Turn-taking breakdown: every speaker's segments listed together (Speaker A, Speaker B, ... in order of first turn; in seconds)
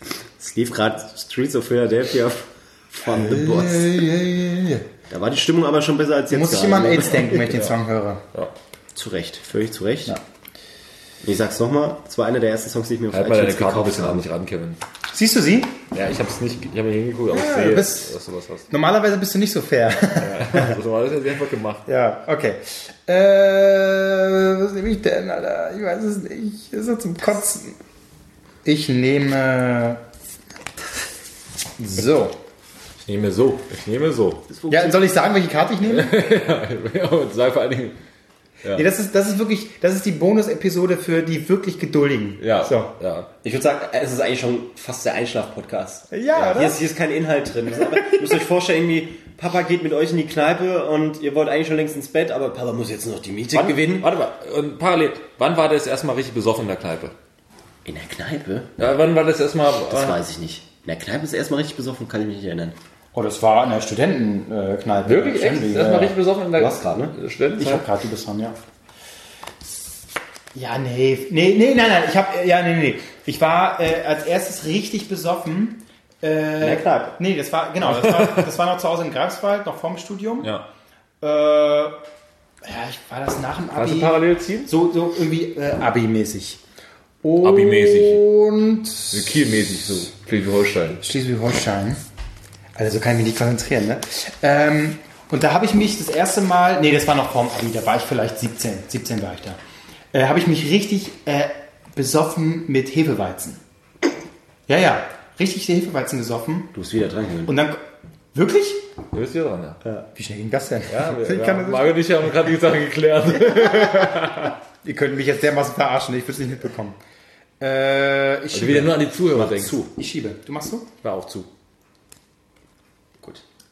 Speaker A: 0.4-4.0, 5.1-7.5, 8.9-10.1, 11.2-14.2, 34.5-35.1, 43.4-54.1, 57.8-58.7, 59.9-62.8, 66.5-67.2, 76.6-77.2, 106.7-107.5, 119.3-119.9
Speaker B: 3.1-4.8, 13.1-14.8, 15.9-18.7, 20.1-21.8, 33.0-34.4, 35.9-38.0, 42.4-43.3, 53.5-57.1, 58.8-60.2, 65.0-67.8, 77.8-78.5, 83.7-84.7, 87.4-88.2, 89.1-91.0, 109.1-109.8, 110.9-114.5, 118.5-119.8, 121.0-121.5
Speaker C: 6.3-8.2, 15.1-15.8, 17.3-18.1, 18.7-20.8, 21.9-27.8, 28.6-30.0, 31.8-32.4, 34.7-36.2, 38.7-42.9, 46.1-46.8, 63.1-66.2, 67.6-68.5, 70.5-80.5, 81.2-82.0, 82.6-86.6, 87.2-89.4, 91.0-92.0, 92.8-99.6, 100.1-103.6, 104.7-106.7, 107.5-107.8, 108.3-108.8, 110.1-112.3, 114.8-117.0, 117.6-119.0, 119.9-120.9